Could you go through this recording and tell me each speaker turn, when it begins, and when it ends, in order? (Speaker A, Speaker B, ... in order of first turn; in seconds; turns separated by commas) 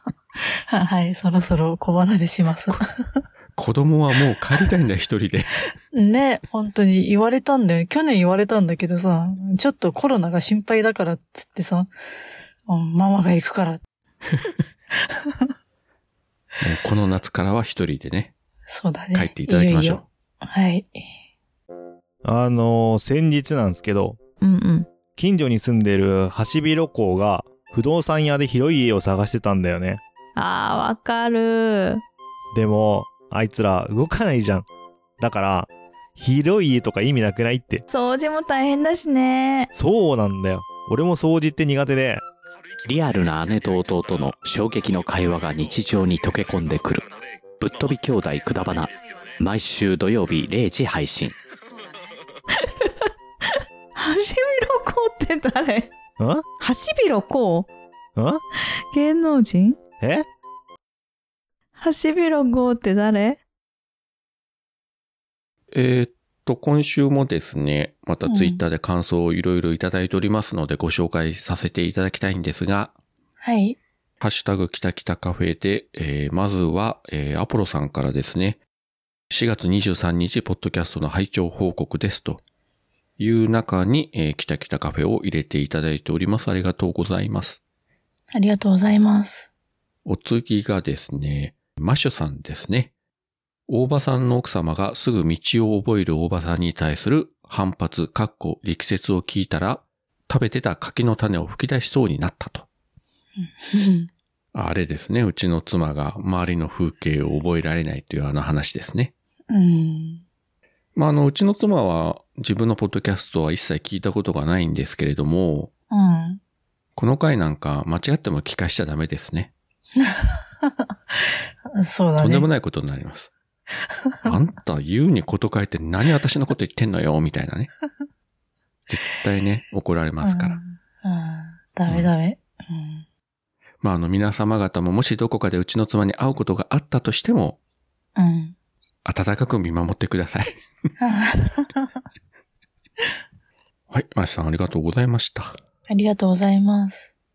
Speaker A: 0.7-2.9, Speaker B: 3.5-5.5, Speaker A: 5.9-11.9, Speaker A: 12.7-13.8, Speaker B: 16.6-18.3, Speaker A: 18.7-21.1, Speaker B: 19.1-20.1, Speaker C: 22.2-24.2, Speaker D: 24.4-24.9, Speaker C: 25.1-30.0, Speaker D: 30.4-32.0, Speaker C: 32.5-34.7, Speaker C: 35.2-37.9, Speaker D: 37.9-39.7, Speaker C: 39.7-42.2, Speaker E: 42.8-51.4, Speaker D: 52.6-55.9, Speaker C: 56.2-56.5, Speaker D: 56.5-57.7, Speaker C: 58.2-58.4, Speaker D: 58.9-59.9, Speaker C: 60.0-60.3, Speaker D: 61.8-63.4, Speaker B: 65.7-72.9, Speaker A: 68.3-68.6, Speaker A: 73.4-73.8, Speaker B: 74.2-78.6, Speaker B: 79.3-82.4, Speaker B: 83.2-87.6, Speaker A: 88.3-89.5, Speaker B: 90.0-92.9, Speaker B: 93.7-102.7, Speaker A: 103.5-104.1, Speaker B: 104.5-109.1, Speaker A: 109.5-110.2, Speaker B: 111.0-115.7, Speaker A: 115.9-116.4, Speaker B: 117.0-119.5, Speaker A: 120.0-122.5, Speaker B: 122.2-123.3, Speaker B: 124.2-127.7, Speaker B: 128.9-130.6, Speaker A: 130.2-133.1, Speaker B: 131.9-132.1, Speaker B: 133.8-137.6, Speaker A: 138.2-138.6, Speaker B: 139.1-140.5, Speaker A: 141.0-141.9, Speaker B: 143.9-145.6, Speaker A: 145.9-147.1